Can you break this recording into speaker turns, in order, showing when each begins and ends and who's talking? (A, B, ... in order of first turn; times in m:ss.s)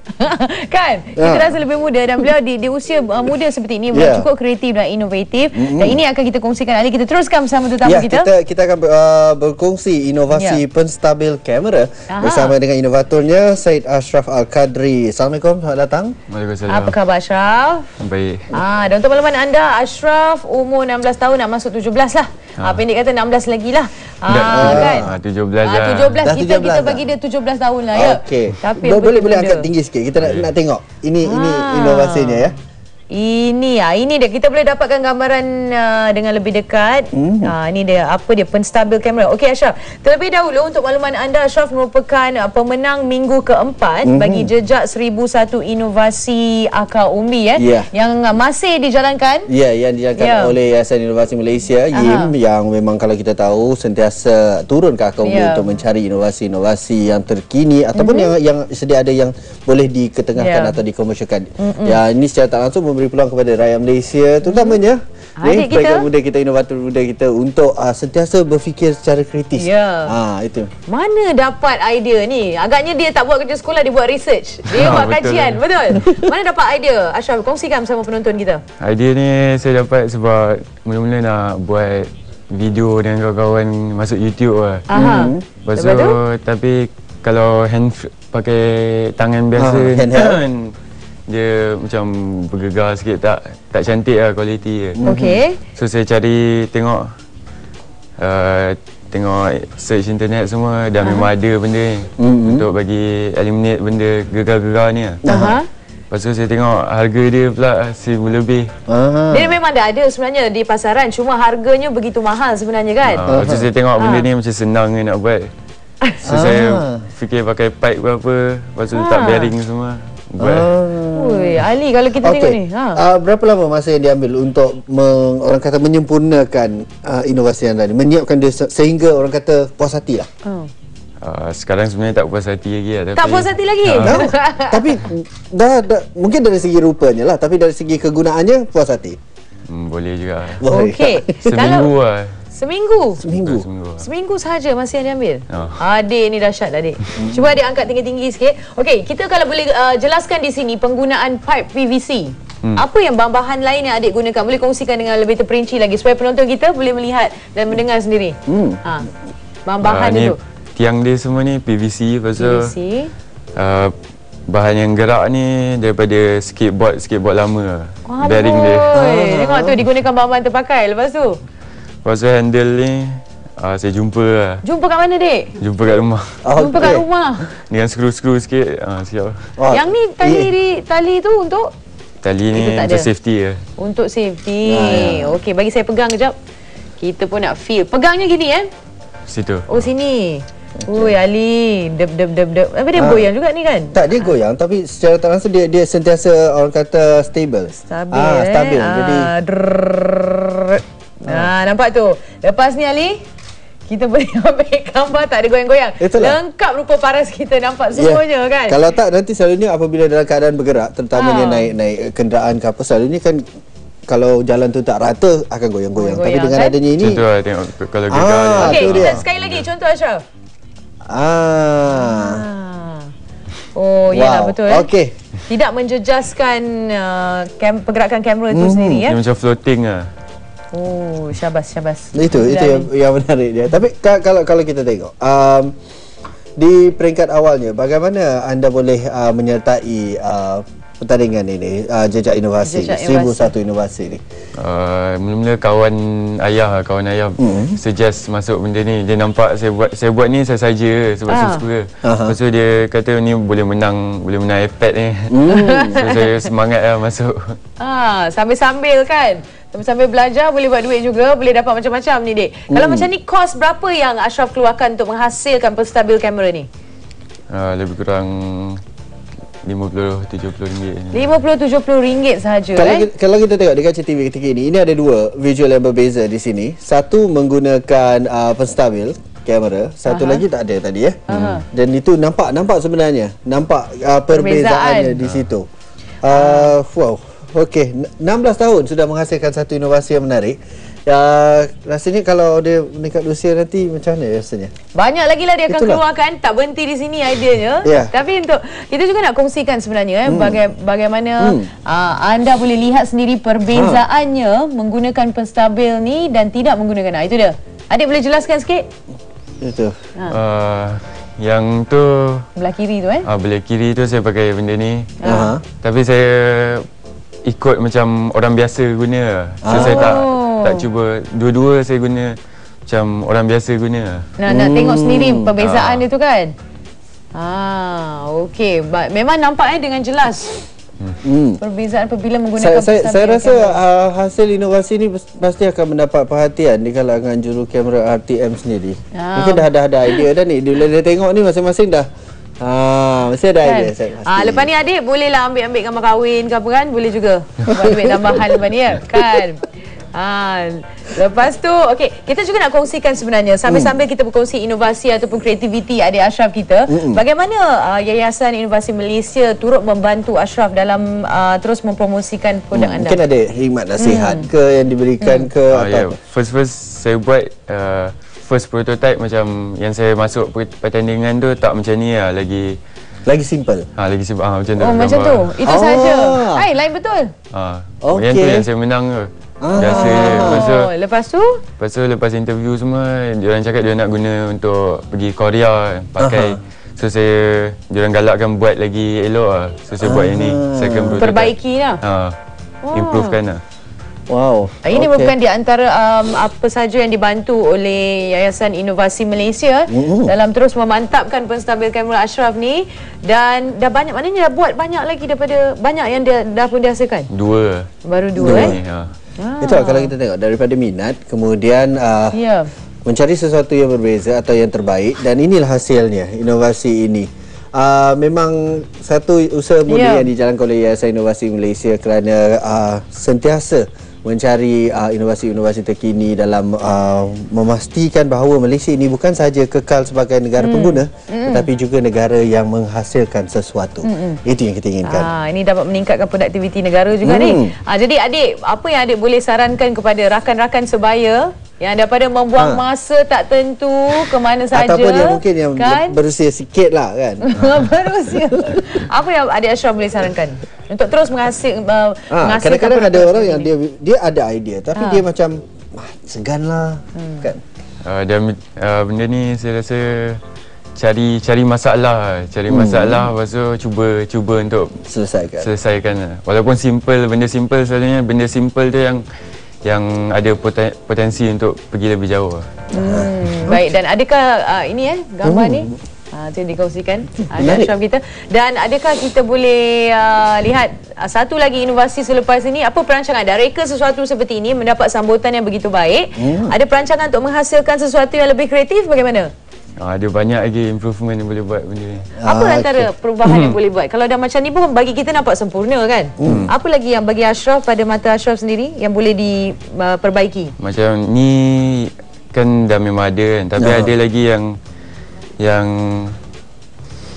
0:00.1-0:08.3 A
0:01.2-0:01.6 B
0:03.9-0:04.3 B
0:05.5-0:06.0 B
0:07.8-0:16.2 B
0:10.3-0:10.6 A
0:12.1-0:12.6 A
0:16.3-0:17.0 C
0:16.7-0:17.9 A
0:18.0-0:18.6 C
0:18.5-0:25.1 A
0:24.3-0:26.3 C
0:24.5-0:25.1 B
0:25.6-0:29.7 A
0:26.2-0:27.1 B
0:28.0-0:32.5 B
0:30.2-0:30.5 C
0:31.2-0:32.5 A
0:33.1-0:49.5 A
0:37.1-0:37.5 B
0:44.1-0:44.5 B
0:47.6-0:47.9 B
0:49.5-1:10.7 B
0:50.2-0:50.6 A
0:51.9-0:52.3 A
0:55.2-0:55.7 A
0:58.0-0:58.3 A
1:00.4-1:00.8 A
1:01.6-1:02.0 A
1:04.4-1:04.8 A
1:05.4-1:06.1 A
1:09.6-1:10.1 A
1:10.9-1:18.6 A
1:14.7-1:15.6 C
1:18.8-1:25.0 C
1:24.9-1:26.2 A
1:24.9-1:25.4 B
1:25.6-1:30.8 C
1:29.6-1:30.4 B
1:31.3-1:35.0 C
1:35.0-1:35.4 B
1:35.0-1:35.6 A
1:35.8-1:37.1 C
1:38.2-1:45.2 C
1:41.0-1:41.3 A
1:42.2-1:42.7 B
1:45.2-1:45.6 B
1:45.3-1:45.7 A
1:46.1-1:48.7 C
1:48.9-1:49.6 B
1:49.3-1:53.4 A
1:53.1-1:55.5 C
1:53.3-1:53.7 B
1:54.0-1:54.3 A
1:56.2-2:00.7 C
1:56.2-1:57.0 B
1:58.9-1:59.5 A
2:00.4-2:01.7 B
2:01.1-2:03.0 A
2:02.2-2:10.3 B
2:10.4-2:10.7 A
2:11.2-2:14.3 C
2:13.2-2:15.0 A
2:14.0-2:19.2 B
2:19.7-2:20.7 C
2:20.6-2:21.7 B
2:20.7-2:21.9 A
2:21.5-2:22.4 C
2:22.5-2:23.2 A
2:23.2-2:24.1 C
2:23.2-2:23.7 B
2:24.0-2:39.1 A
2:25.5-2:25.8 C
2:27.2-2:27.5 B
2:38.5-2:38.8 B
2:39.7-2:40.4 A
2:39.8-2:42.7 C
2:42.4-2:43.1 A
2:43.6-2:43.9 C
2:44.5-2:49.0 C
2:48.1-2:51.4 A
2:48.9-2:49.8 B
2:52.0-2:54.6 C
2:54.6-2:55.5 A
2:55.6-2:56.5 C
2:56.4-2:57.0 B
2:56.5-2:57.5 A
2:57.5-2:59.6 C
2:59.6-3:00.5 B
2:59.7-3:01.7 A
3:02.2-3:03.6 C
3:02.5-3:03.1 A
3:03.8-3:06.4 A
3:04.6-3:05.4 B
3:07.0-3:08.7 A
3:09.3-3:09.7 C
3:09.7-3:14.3 A
3:10.8-3:11.2 B
3:13.0-3:13.3 B
3:13.9-3:19.3 B
3:17.9-3:23.2 A
3:23.9-3:28.8 A
3:26.0-3:26.4 B
3:28.0-3:33.4 B
3:31.2-3:31.7 A
3:34.1-3:37.2 B
3:36.0-3:36.8 A
3:37.0-3:39.7 C
3:38.1-3:39.2 B
3:38.6-3:40.2 A
3:41.1-3:42.5 B
3:41.9-3:43.1 A
3:43.7-3:44.9 A
3:44.1-3:45.1 B
3:45.5-3:49.2 A
3:48.5-3:49.0 B
3:49.1-3:50.1 C
3:50.7-3:52.9 A
3:52.1-3:55.8 B
3:56.6-4:04.2 B
4:02.6-4:03.5 A
4:04.6-4:17.6 C
4:07.4-4:07.8 B
4:11.3-4:11.6 A
4:12.0-4:12.4 B
4:15.3-4:16.0 B
4:15.5-4:16.3 A
4:17.8-4:26.7 A
4:22.7-4:23.1 B
4:27.5-4:28.8 C
4:29.6-4:31.3 C
4:31.1-4:33.1 A
4:32.8-4:45.7 B
4:40.1-4:40.4 A
4:41.3-4:41.6 C
4:41.3-4:41.6 A
4:44.3-4:45.2 A
4:45.2-4:45.5 C
4:46.2-4:54.7 B
4:46.3-4:46.8 A
4:55.0-5:08.9 A
4:55.7-4:56.0 B
4:57.8-4:58.1 B
5:00.3-5:00.6 B
5:01.4-5:01.7 B
5:03.7-5:04.0 B
5:09.6-5:10.0 B
5:10.3-5:12.5 C
5:12.6-5:13.3 A
5:13.2-5:16.9 C
5:15.2-5:15.5 A
5:15.2-5:15.6 B
5:17.4-5:24.3 C
5:19.6-5:20.2 B
5:19.7-5:20.9 A
5:24.4-5:26.5 A
5:24.5-5:25.5 B
5:25.6-5:26.0 C
5:27.3-5:30.7 A
5:31.2-5:31.6 B
5:31.6-5:33.8 A
5:32.6-5:42.1 B
5:39.1-5:40.2 A
5:42.6-5:44.7 B
5:43.6-6:03.2 A
5:47.7-5:48.6 B
5:53.7-5:53.9 B
5:56.9-5:57.2 B
6:02.7-6:06.2 B
6:04.0-6:04.5 A
6:05.2-6:05.5 A
6:05.7-6:12.8 C
6:13.3-6:13.9 B
6:14.0-6:15.6 C
6:14.8-6:17.3 A
6:15.6-6:16.7 B
6:17.5-6:20.9 C
6:18.0-6:18.7 B
6:19.6-6:20.7 B
6:19.8-6:21.6 A
6:21.8-6:32.4 C
6:26.2-6:26.6 B
6:30.0-6:31.2 B
6:31.1-6:32.0 A
6:32.8-6:33.4 A
6:32.9-6:33.6 C
6:34.3-6:35.4 B
6:34.8-6:47.3 A
6:39.9-6:40.3 B
6:47.3-6:47.9 C
6:48.0-6:48.8 A
6:48.4-6:48.8 B
6:48.4-6:49.1 C
6:49.4-6:50.1 A
6:49.6-6:52.4 B
6:52.3-6:52.7 A
6:53.0-7:15.3 B
6:59.9-7:00.3 A
7:10.6-7:11.7 A
7:14.0-7:14.4 A
7:15.0-7:26.2 A
7:17.2-7:17.8 B
7:24.7-7:28.8 B
7:27.4-7:33.7 A
7:32.3-7:37.6 B
7:35.0-7:35.2 A
7:37.2-7:37.5 A
7:38.0-7:40.4 C
7:41.0-7:45.0 C
7:42.7-7:43.3 B
7:45.1-7:45.7 B
7:45.6-7:49.2 C
7:49.8-7:52.7 C
7:52.9-7:53.9 B
7:52.9-8:09.5 A
7:55.4-7:56.0 B
7:57.5-7:57.9 B
8:06.4-8:06.8 B
8:10.0-8:12.3 C
8:12.4-8:13.1 B
8:12.4-8:20.7 A
8:13.4-8:13.8 C
8:16.4-8:16.7 B
8:20.8-8:24.7 C
8:23.8-8:24.1 B
8:25.6-8:26.4 C